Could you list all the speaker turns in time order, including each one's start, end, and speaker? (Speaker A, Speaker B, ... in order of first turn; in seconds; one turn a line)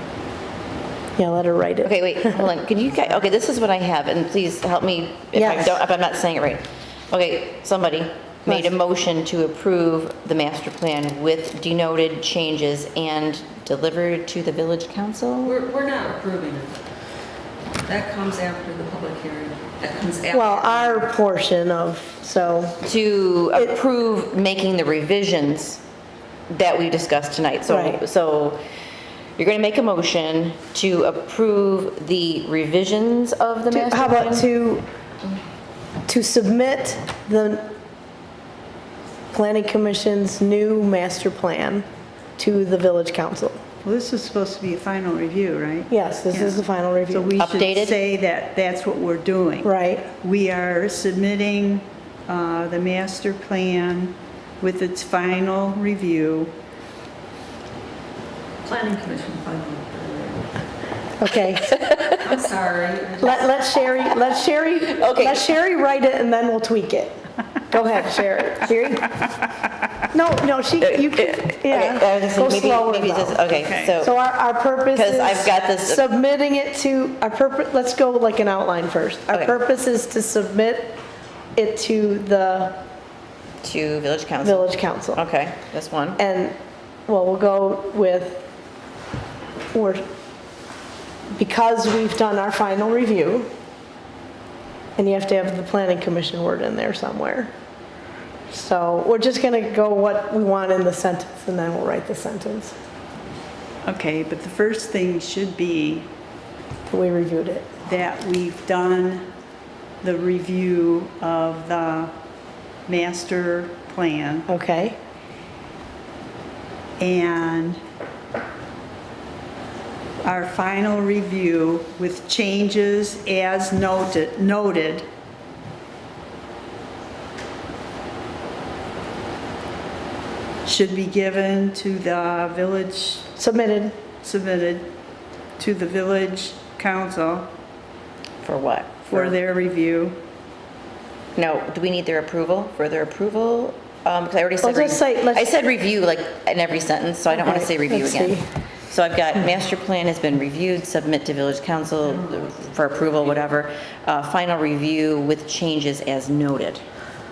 Speaker A: 1.2-2.4
Speaker B: 1.8-15.6
Speaker A: 5.3-5.8
Speaker A: 8.5-8.7
Speaker C: 15.4-16.8
Speaker C: 17.9-21.1
Speaker A: 20.3-22.8
Speaker B: 22.8-25.8
Speaker B: 26.5-28.6
Speaker A: 27.7-28.0
Speaker B: 29.4-34.5
Speaker A: 33.7-34.9
Speaker A: 36.1-37.7
Speaker A: 39.3-41.9
Speaker A: 42.4-43.6
Speaker D: 43.8-56.5
Speaker A: 45.9-47.4
Speaker B: 47.4-48.0
Speaker A: 49.6-50.1
Speaker C: 58.6-60.5
Speaker A: 61.2-61.7
Speaker B: 61.8-62.2
Speaker C: 61.9-63.4
Speaker A: 63.2-69.1
Speaker B: 64.9-65.5
Speaker A: 70.1-73.4
Speaker B: 70.9-74.2
Speaker D: 73.5-74.0
Speaker A: 74.0-81.0
Speaker B: 74.9-76.1
Speaker B: 79.3-79.6
Speaker A: 81.6-82.8
Speaker B: 83.6-86.2
Speaker A: 84.4-85.2
Speaker A: 86.2-86.6
Speaker A: 87.1-88.5
Speaker A: 89.7-90.0
Speaker A: 91.4-93.5
Speaker A: 95.0-97.5
Speaker A: 98.5-102.8
Speaker D: 103.8-106.1
Speaker A: 106.9-107.7
Speaker D: 107.8-109.3
Speaker D: 110.0-112.1
Speaker D: 112.9-114.5
Speaker A: 114.5-115.0
Speaker D: 117.0-117.8
Speaker D: 120.2-125.1
Speaker D: 130.7-133.3
Speaker A: 133.4-134.0
Speaker D: 134.2-134.9
Speaker D: 135.6-137.5
Speaker B: 138.4-139.4
Speaker D: 139.1-140.2
Speaker B: 141.4-156.8
Speaker A: 144.6-145.5
Speaker A: 147.3-148.5